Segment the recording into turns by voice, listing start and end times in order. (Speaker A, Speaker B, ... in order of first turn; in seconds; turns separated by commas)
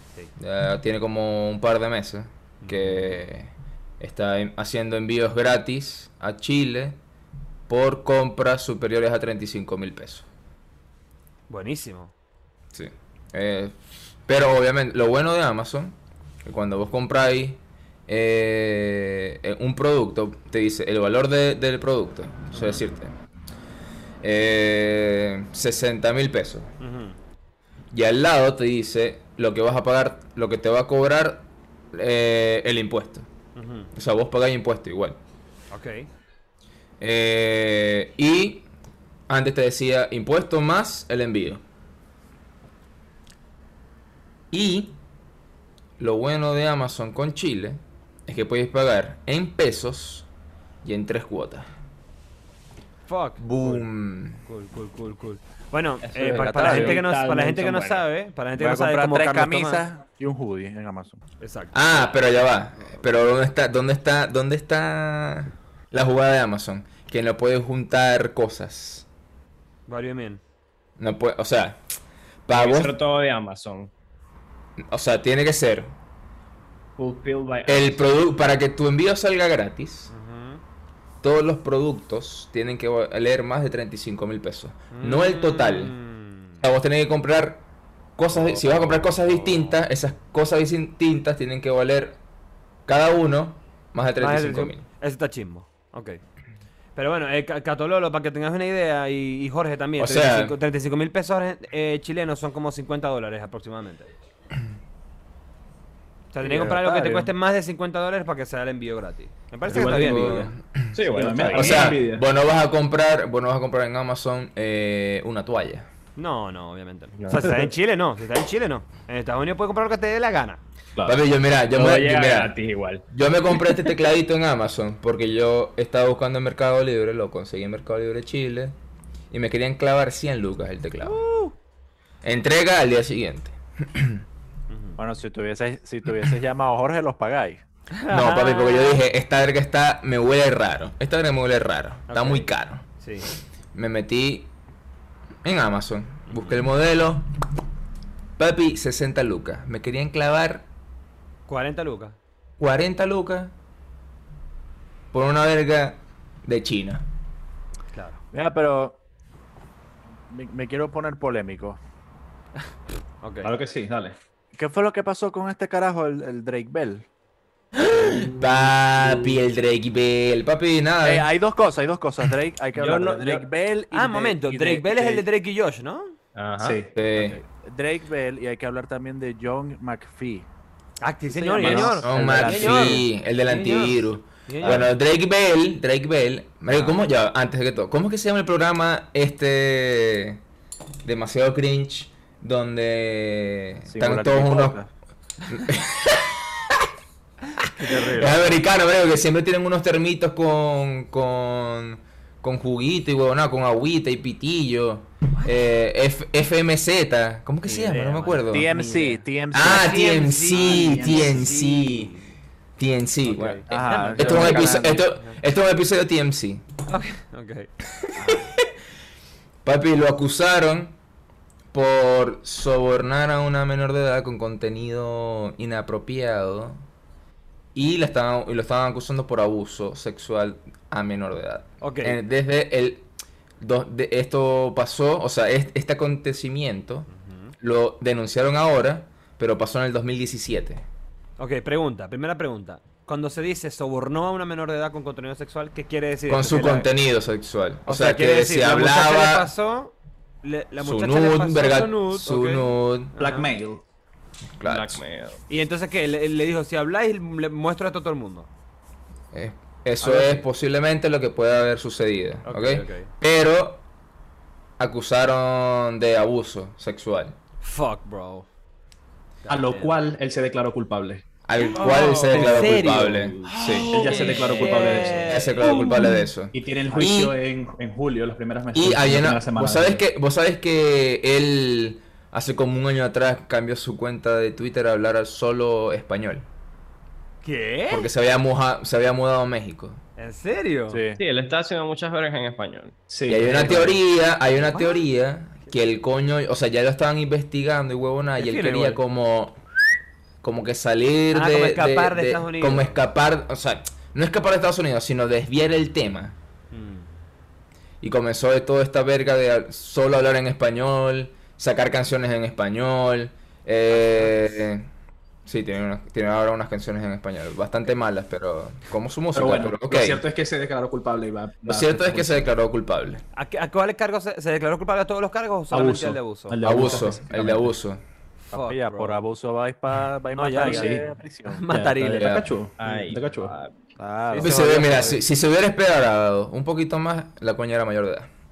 Speaker A: 0.3-7.0, Speaker B: 2.6-3.2, Speaker A: 7.7-10.2, Speaker B: 11.5-12.1, Speaker A: 12.7-23.1, Speaker A: 24.2-26.7, Speaker B: 26.8-27.2, Speaker A: 27.9-33.3, Speaker B: 33.5-33.9, Speaker A: 33.9-35.2, Speaker B: 35.7-36.1, Speaker A: 37.0-38.6, Speaker A: 39.3-41.6, Speaker A: 44.5-45.0, Speaker A: 46.0-50.3, Speaker A: 50.8-51.7, Speaker B: 53.1-53.9, Speaker A: 53.4-54.4, Speaker B: 54.4-59.8, Speaker C: 56.0-58.0, Speaker D: 56.2-57.1, Speaker D: 58.5-61.2, Speaker B: 61.4-62.0, Speaker A: 61.7-69.0, Speaker B: 69.9-70.4, Speaker A: 71.0-71.8, Speaker A: 72.5-72.9, Speaker C: 72.5-73.9, Speaker A: 74.8-75.9, Speaker C: 77.0-78.1, Speaker A: 77.7-80.1, Speaker B: 80.1-80.6, Speaker A: 81.2-85.9, Speaker B: 84.9-86.6, Speaker A: 86.6-87.6, Speaker A: 88.2-92.2, Speaker B: 88.4-89.7, Speaker A: 92.9-94.8, Speaker B: 94.2-96.2, Speaker B: 97.0-104.1, Speaker A: 100.0-100.5, Speaker B: 106.3-110.5, Speaker D: 106.4-107.3, Speaker E: 109.7-110.5, Speaker A: 109.7-111.0, Speaker C: 110.9-112.0, Speaker E: 111.1-112.2, Speaker A: 111.5-115.9, Speaker B: 116.2-120.6, Speaker C: 117.2-117.7, Speaker A: 121.0-122.5, Speaker C: 121.7-123.0, Speaker A: 123.1-128.8, Speaker A: 129.3-131.2, Speaker B: 131.0-131.5, Speaker A: 132.2-134.2, Speaker B: 134.7-135.0, Speaker D: 135.0-137.6, Speaker B: 137.9-139.0, Speaker A: 138.1-142.8, Speaker B: 142.1-143.3, Speaker A: 143.7-144.5, Speaker A: 145.4-147.3, Speaker B: 146.3-146.6, Speaker A: 148.4-150.7, Speaker B: 151.5-152.2, Speaker A: 152.6-153.5, Speaker A: 155.1-157.1, Speaker B: 157.9-158.2, Speaker D: 158.3-159.0, Speaker D: 160.3-161.8, Speaker B: 163.2-163.5, Speaker E: 163.4-164.2, Speaker D: 164.5-167.1, Speaker A: 167.7-171.3, Speaker D: 171.0-175.2, Speaker C: 172.7-173.5, Speaker B: 173.9-176.2, Speaker C: 176.3-176.8, Speaker E: 176.6-176.9, Speaker A: 176.9-177.4, Speaker D: 177.1-180.5, Speaker B: 181.0-184.9, Speaker D: 181.3-183.1, Speaker A: 181.6-190.4, Speaker D: 184.6-184.9, Speaker A: 191.0-194.8, Speaker D: 193.9-194.9, Speaker A: 195.5-196.8, Speaker B: 197.6-198.6, Speaker A: 197.9-208.7, Speaker B: 207.6-212.2, Speaker D: 208.5-211.5, Speaker A: 209.5-212.1, Speaker A: 212.8-216.6, Speaker D: 213.3-215.0, Speaker B: 213.7-215.4, Speaker B: 216.9-217.7, Speaker A: 218.1-218.5, Speaker D: 218.2-218.5, Speaker A: 219.6-221.0, Speaker A: 221.7-226.8, Speaker A: 227.7-233.1, Speaker B: 231.8-232.2, Speaker A: 233.6-237.1, Speaker B: 237.1-237.5, Speaker A: 237.6-240.8, Speaker B: 241.4-246.9, Speaker A: 246.3-249.5, Speaker B: 247.8-253.5, Speaker A: 250.8-253.1, Speaker E: 253.2-253.8, Speaker A: 254.6-255.0, Speaker C: 254.6-255.4, Speaker B: 255.5-258.5, Speaker A: 259.3-263.8, Speaker B: 260.0-260.4, Speaker B: 262.4-263.1, Speaker A: 264.8-267.4, Speaker B: 267.6-268.5, Speaker B: 269.4-270.0, Speaker E: 269.5-271.2, Speaker A: 271.4-274.3, Speaker C: 271.6-276.0, Speaker B: 271.8-276.1, Speaker E: 273.5-276.0, Speaker A: 275.3-277.4, Speaker E: 276.5-280.0, Speaker A: 278.7-286.5, Speaker B: 287.4-288.1, Speaker A: 287.9-290.0, Speaker B: 290.2-291.0, Speaker D: 290.9-291.2, Speaker C: 291.2-292.9, Speaker E: 293.1-294.0, Speaker A: 293.3-299.6, Speaker B: 294.7-295.0, Speaker B: 298.4-299.0, Speaker A: 300.4-306.4, Speaker B: 301.3-302.9, Speaker B: 306.7-307.1, Speaker A: 308.0-314.9, Speaker B: 313.9-314.4, Speaker A: 315.4-320.2, Speaker E: 319.3-322.5, Speaker A: 321.6-323.2, Speaker B: 323.3-326.9, Speaker E: 325.7-327.7, Speaker A: 326.6-328.0, Speaker B: 328.5-329.2, Speaker D: 328.5-332.2, Speaker B: 330.3-332.3, Speaker E: 330.6-331.0, Speaker E: 331.7-333.5, Speaker A: 332.1-332.5, Speaker C: 332.8-333.7, Speaker D: 334.0-335.2, Speaker B: 334.3-335.1, Speaker A: 334.4-338.3